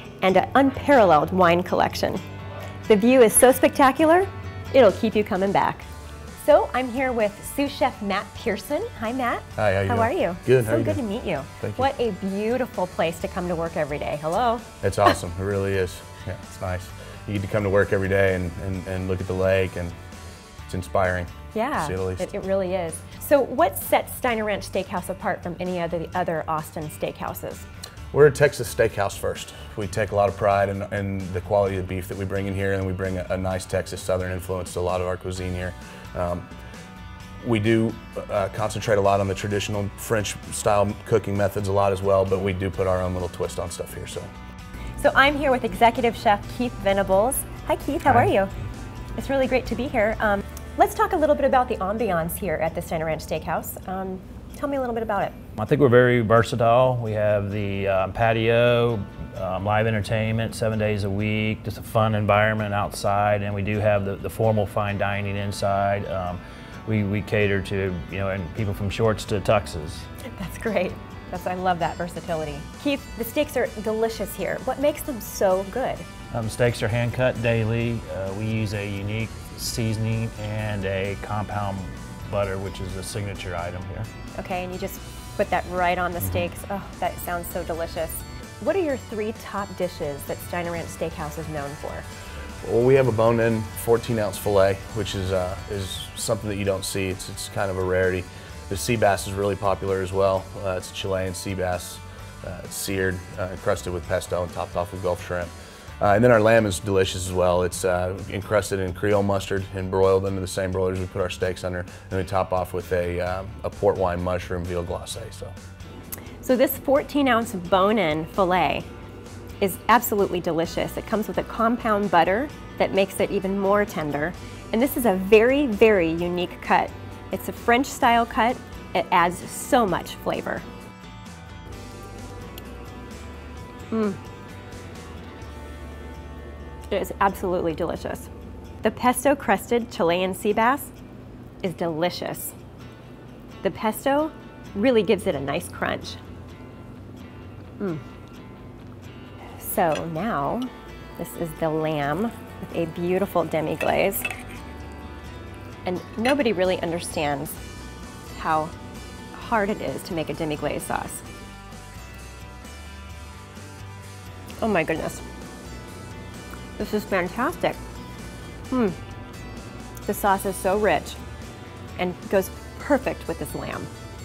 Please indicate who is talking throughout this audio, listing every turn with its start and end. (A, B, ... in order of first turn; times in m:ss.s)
0:00.2-0:02.2 A
0:02.9-0:05.8 A
0:06.4-0:15.2 A
0:09.6-0:11.0 B
0:11.6-0:11.9 B
0:14.8-0:20.0 B
0:20.7-0:22.3 B
0:21.5-0:27.7 A
0:28.1-0:36.5 B
0:37.4-0:44.3 B
0:45.0-0:48.5 A
0:49.2-0:55.4 A
0:55.6-1:10.1 C
1:10.3-1:16.0 A
1:16.3-1:24.1 C
1:24.3-1:32.0 A
1:32.6-1:55.5 B
1:56.4-1:58.9 A
1:59.6-2:10.6 A
2:13.9-2:14.2 A
2:16.9-2:18.3 A
2:18.8-2:20.9 A
2:21.6-2:22.5 A
2:23.6-2:26.2 A
2:29.6-2:34.3 A
2:35.8-2:37.6 A
2:38.3-2:38.7 A
2:39.3-2:41.2 A
2:44.6-2:45.2 A
2:46.8-2:47.8 A
2:48.7-2:49.0 A
2:50.0-2:51.2 A
2:52.0-2:53.9 A